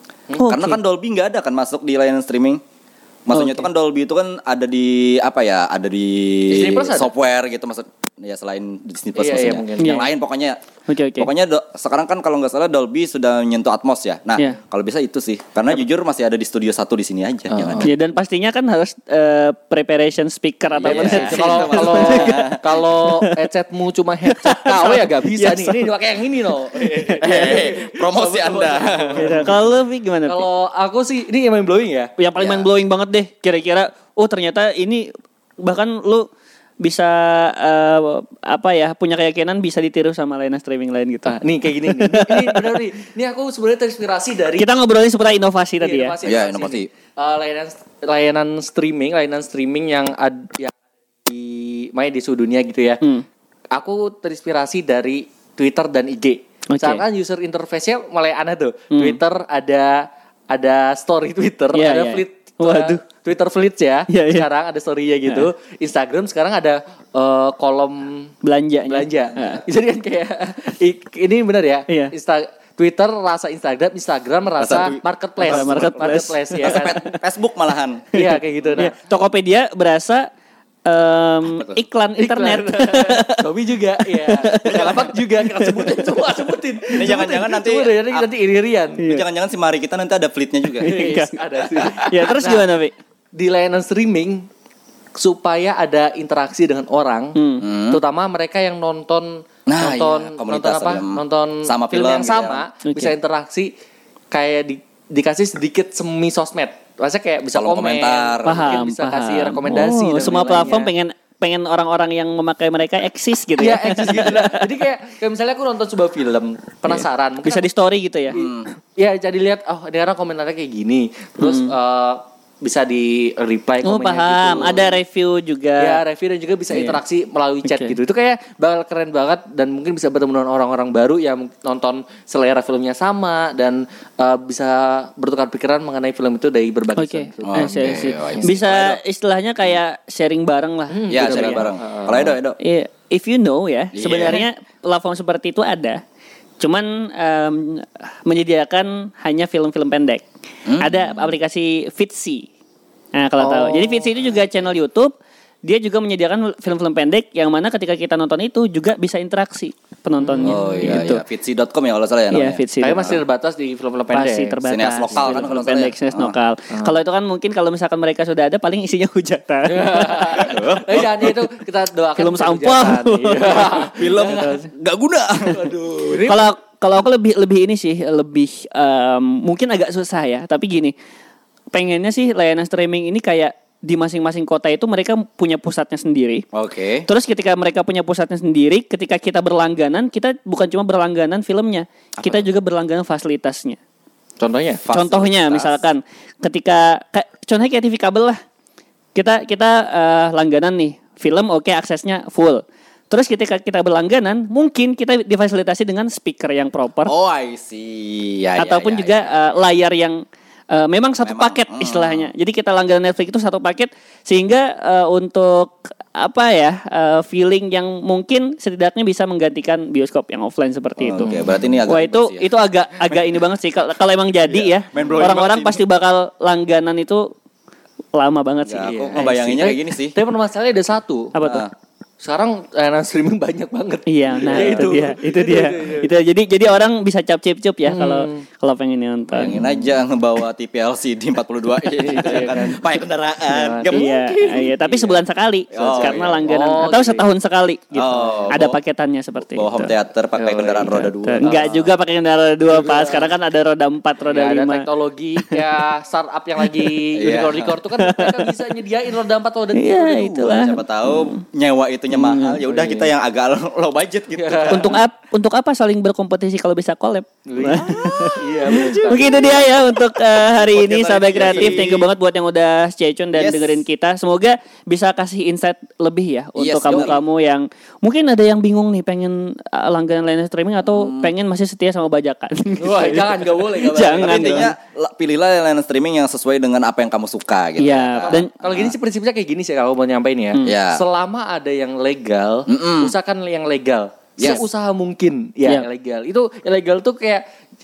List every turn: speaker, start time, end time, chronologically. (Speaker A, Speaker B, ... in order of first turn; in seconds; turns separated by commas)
Speaker A: 0.4-0.8, Speaker B: 0.5-2.6, Speaker B: 3.3-10.6, Speaker A: 3.3-3.7, Speaker C: 6.5-7.1, Speaker C: 9.2-10.1, Speaker A: 9.8-10.1, Speaker A: 10.9-11.3, Speaker B: 11.2-17.9, Speaker C: 17.5-17.9, Speaker A: 17.8-23.3, Speaker B: 20.8-22.6, Speaker C: 20.8-29.7, Speaker A: 24.3-25.9, Speaker B: 27.2-29.5, Speaker A: 29.2-30.4, Speaker C: 30.3-32.1, Speaker A: 32.2-35.1, Speaker B: 32.4-32.7, Speaker A: 35.6-36.3, Speaker A: 36.8-42.8, Speaker C: 41.3-44.7, Speaker A: 44.6-46.1, Speaker C: 45.8-53.0, Speaker B: 46.2-46.9, Speaker C: 53.7-68.3, Speaker A: 56.7-57.0, Speaker A: 58.9-59.2, Speaker A: 61.7-63.0, Speaker A: 64.1-64.5, Speaker A: 68.4-69.6, Speaker C: 68.9-77.0, Speaker B: 74.6-75.9, Speaker A: 75.4-77.2, Speaker B: 76.6-78.0, Speaker C: 78.1-79.0, Speaker A: 78.1-80.3, Speaker A: 80.9-83.5, Speaker B: 81.5-81.8, Speaker C: 82.2-89.0, Speaker A: 84.1-86.1, Speaker B: 84.7-85.1, Speaker B: 87.0-88.3, Speaker A: 89.0-89.2, Speaker B: 89.0-90.9, Speaker A: 90.8-92.9, Speaker C: 90.8-92.7, Speaker C: 93.3-94.5, Speaker C: 95.2-103.7, Speaker A: 97.4-97.7, Speaker B: 97.6-98.0, Speaker B: 99.7-102.6, Speaker A: 102.9-103.1, Speaker C: 104.3-110.9, Speaker B: 107.5-108.8, Speaker A: 108.5-114.7, Speaker C: 113.6-117.7, Speaker A: 116.9-118.4, Speaker C: 118.3-124.8, Speaker B: 118.3-118.7, Speaker A: 121.4-121.7, Speaker A: 123.8-126.0, Speaker B: 124.5-124.9, Speaker C: 125.8-138.5, Speaker A: 126.7-127.0, Speaker A: 127.7-128.0, Speaker A: 137.0-141.6, Speaker B: 137.5-139.0, Speaker C: 140.9-142.4, Speaker B: 141.1-142.6, Speaker A: 142.6-146.0, Speaker B: 143.9-144.5, Speaker A: 146.6-150.3, Speaker B: 150.7-151.2, Speaker A: 150.8-152.5, Speaker A: 153.1-155.1, Speaker C: 153.4-154.1, Speaker A: 155.7-161.2, Speaker C: 160.2-161.0, Speaker B: 160.4-163.2, Speaker A: 162.3-163.2, Speaker C: 162.8-164.6, Speaker A: 164.1-170.6, Speaker B: 164.7-166.3, Speaker C: 165.1-165.4, Speaker C: 166.7-166.9, Speaker C: 169.7-174.7, Speaker B: 170.4-171.3, Speaker A: 172.2-174.6, Speaker B: 174.0-175.8, Speaker C: 175.4-176.5, Speaker A: 176.3-180.9, Speaker A: 181.7-186.4, Speaker B: 186.5-187.1, Speaker A: 187.1-193.8, Speaker B: 192.2-192.5, Speaker C: 194.4-194.8, Speaker B: 194.8-195.8, Speaker A: 194.9-198.4, Speaker A: 199.2-207.1, Speaker B: 207.1-209.6, Speaker A: 208.6-227.3, Speaker B: 211.2-212.3, Speaker B: 221.0-222.5, Speaker B: 224.5-225.8, Speaker A: 228.2-229.3, Speaker B: 228.7-230.2, Speaker C: 228.8-231.4, Speaker A: 231.3-231.7, Speaker B: 231.4-231.7, Speaker C: 232.2-236.1, Speaker A: 234.1-239.6, Speaker B: 234.4-234.9, Speaker C: 237.9-238.4, Speaker B: 239.4-244.1, Speaker C: 239.4-239.8, Speaker C: 242.0-242.8, Speaker C: 243.5-245.2, Speaker A: 243.9-249.9, Speaker B: 245.7-246.5, Speaker C: 245.8-247.3, Speaker B: 247.9-248.8, Speaker B: 249.6-251.9, Speaker C: 250.4-251.7, Speaker A: 251.0-254.9, Speaker C: 252.7-253.3, Speaker C: 254.2-260.6, Speaker A: 256.7-256.9, Speaker B: 257.2-257.8, Speaker A: 258.0-258.5, Speaker A: 259.8-261.4, Speaker B: 260.4-265.0, Speaker A: 262.1-262.6, Speaker C: 262.7-263.1, Speaker C: 264.3-264.9, Speaker A: 264.7-284.7, Speaker C: 267.5-269.6, Speaker B: 267.9-269.8, Speaker B: 270.6-272.1, Speaker B: 273.3-273.8, Speaker B: 276.6-277.2, Speaker B: 280.9-281.3, Speaker C: 282.8-284.7, Speaker B: 284.1-288.9, Speaker A: 287.8-288.5, Speaker C: 288.3-297.4, Speaker B: 290.6-291.0, Speaker B: 292.7-293.1, Speaker B: 294.4-294.6